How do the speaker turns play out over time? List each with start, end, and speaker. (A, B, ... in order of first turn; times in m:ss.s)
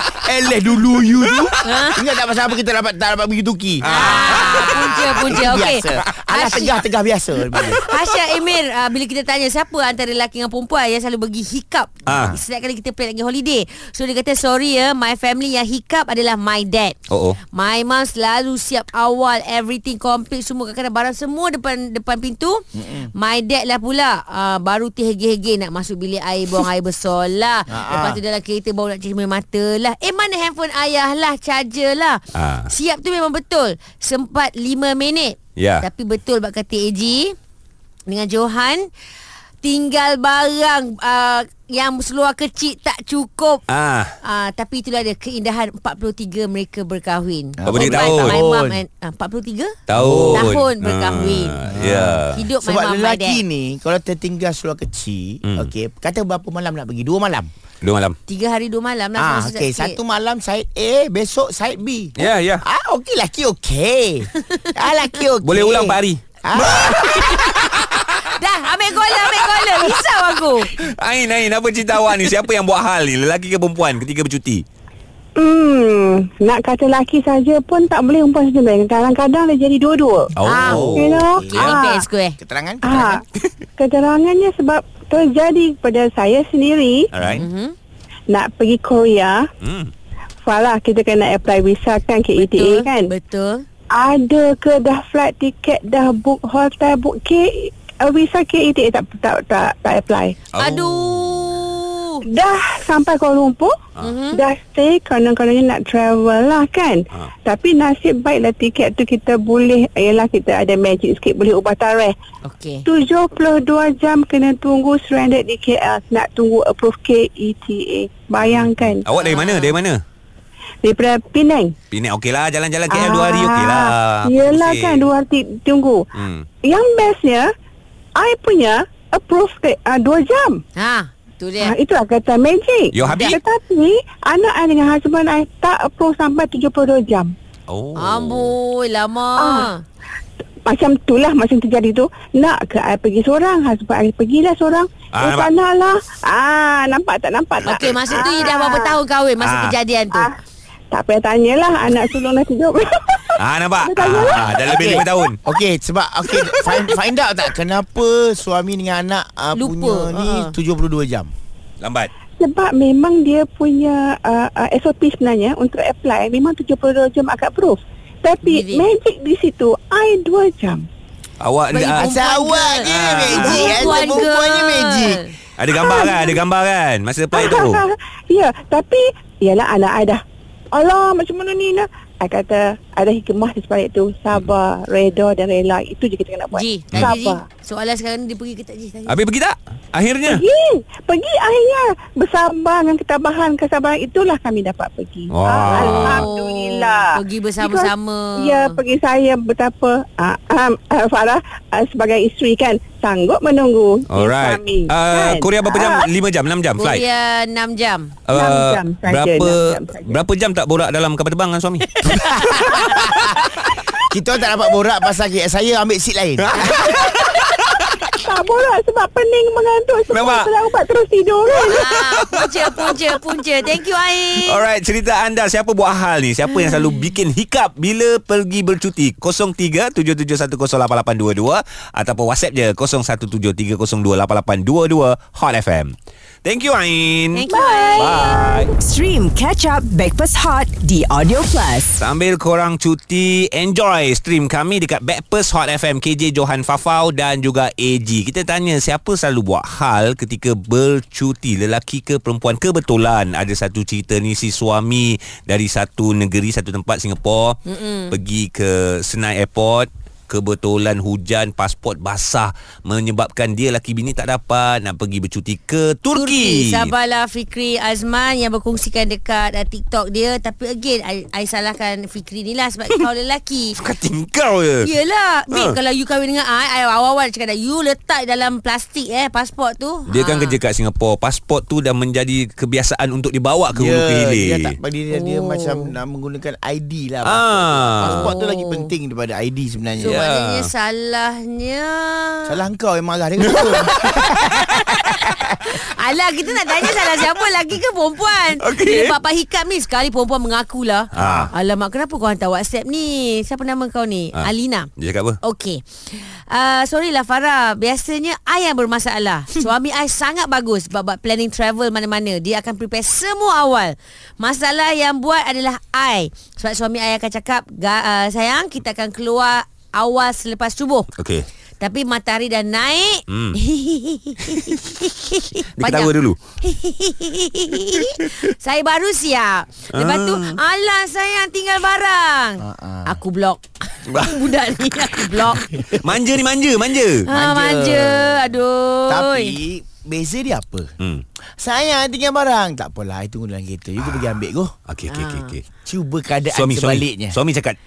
0:00.2-0:07.8 A
0:01.6-0:02.0 B
0:03.9-0:06.8 B
0:04.0-0:04.7 C
0:07.5-0:17.0 B
0:12.1-0:12.4 A
0:12.1-0:12.4 C
0:17.1-0:17.4 C
0:17.5-0:37.4 B
0:22.8-0:23.1 A
0:27.7-0:28.2 A
0:32.4-0:32.7 C
0:35.6-0:35.9 C
0:38.1-0:38.9 B
0:39.6-0:43.6 B
0:43.7-0:44.1 C
0:44.2-0:49.8 B
0:47.6-0:48.8 A
0:47.6-0:48.4 C
0:49.9-0:52.4 C
0:49.9-0:50.6 A
0:50.3-0:51.6 B
0:51.7-0:57.5 A
0:52.3-0:53.4 B
0:55.4-0:55.7 C
0:57.8-0:58.2 C
0:58.3-1:00.0 B
0:59.2-1:07.2 A
1:02.2-1:02.6 C
1:04.4-1:04.9 B
1:05.4-1:08.1 C
1:06.8-1:07.6 B
1:08.2-1:10.7 B
1:09.4-1:09.9 C
1:10.8-1:14.6 C
1:15.4-1:20.3 D
1:20.4-1:21.1 C
1:20.4-1:22.4 B
1:20.5-1:21.8 A
1:21.0-1:22.0 D
1:22.4-1:23.2 A
1:22.8-1:23.2 D
1:23.8-1:27.1 D
1:27.1-1:27.5 C
1:27.2-1:27.8 B
1:28.3-1:29.5 D
1:29.6-1:29.9 C
1:30.4-1:33.1 D
1:32.4-1:33.7 B
1:33.9-1:40.4 D
1:40.6-1:41.5 C
1:40.6-1:42.2 B
1:42.2-1:43.8 D
1:44.0-1:44.4 B
1:44.3-1:52.2 D
1:52.4-1:52.8 B
1:52.9-1:59.0 D
1:58.4-2:00.0 C
1:59.2-1:59.8 B
2:00.8-2:01.8 D
2:01.9-2:05.1 C
2:02.9-2:06.1 D
2:06.2-2:06.5 C
2:06.6-2:07.5 D
2:08.2-2:10.6 D
2:10.8-2:11.7 B
2:11.6-2:17.3 D
2:12.9-2:13.4 C
2:13.0-2:13.4 B
2:17.7-2:18.6 C
2:17.9-2:19.8 B
2:19.4-2:19.7 D
2:20.7-2:29.0 D
2:25.1-2:25.5 C
2:27.6-2:28.3 C
2:27.7-2:30.3 B
2:29.4-2:29.8 C
2:30.1-2:30.4 D
2:30.9-2:35.1 D
2:33.4-2:35.4 C
2:34.0-2:41.3 A
2:39.6-2:40.5 B
2:41.8-2:42.1 C
2:42.4-2:50.8 D
2:48.4-2:48.9 B
2:51.4-2:52.1 C
2:51.7-2:55.3 B
2:52.0-2:55.2 A
2:52.8-2:53.9 C
2:55.6-2:57.8 C
2:55.9-2:56.4 D
2:57.3-3:00.2 D
3:00.7-3:07.4 D
3:06.5-3:09.2 B
3:09.1-3:10.4 C
3:10.3-3:26.1 D
3:15.3-3:16.3 C
3:15.7-3:18.8 B
3:24.1-3:27.1 C
3:26.8-3:28.2 B
3:28.3-3:32.8 C
3:28.3-3:30.2 D
3:32.1-3:36.9 A
3:32.4-3:32.8 B
3:36.4-3:37.8 C
3:36.9-3:37.3 D
3:38.2-3:41.9 D
3:40.1-3:40.5 C
3:41.5-3:44.6 B
3:41.6-3:43.1 C
3:44.4-3:57.4 C
3:46.7-3:46.9 B
3:57.3-3:58.4 B
3:57.5-3:58.7 D
3:58.0-3:58.7 C
3:58.8-4:02.0 E
4:02.0-4:17.6 C
4:17.7-4:18.2 B
4:18.1-4:26.9 C
4:26.1-4:33.8 B
4:33.8-4:34.8 C
4:34.8-4:40.6 B
4:35.5-4:35.8 C
4:40.1-4:44.8 C
4:43.8-4:50.2 A
4:45.1-4:45.9 B
4:47.2-4:48.4 C
4:48.0-4:48.9 B
4:50.0-4:50.7 C
4:50.0-4:52.6 B
4:52.5-4:54.5 A
4:53.4-4:54.9 C
4:53.5-5:04.9 B
4:56.9-4:57.2 C
4:58.6-4:59.2 C
5:01.1-5:01.5 C
5:01.2-5:01.5 A
5:04.4-5:05.4 C
5:05.4-5:21.1 B
5:21.2-5:21.5 C
5:21.8-5:36.0 B
5:23.3-5:23.6 C
5:24.5-5:24.8 C
5:25.8-5:26.4 C
5:29.9-5:30.6 C
5:32.6-5:33.2 A
5:34.1-5:34.4 C
5:35.4-5:37.3 C
5:37.2-5:39.6 B
5:37.3-5:38.6 A
5:39.1-5:40.9 A
5:41.6-5:44.7 A
5:44.9-5:45.6 C
5:45.1-5:45.5 B
5:45.8-5:47.4 A
5:46.5-5:47.8 C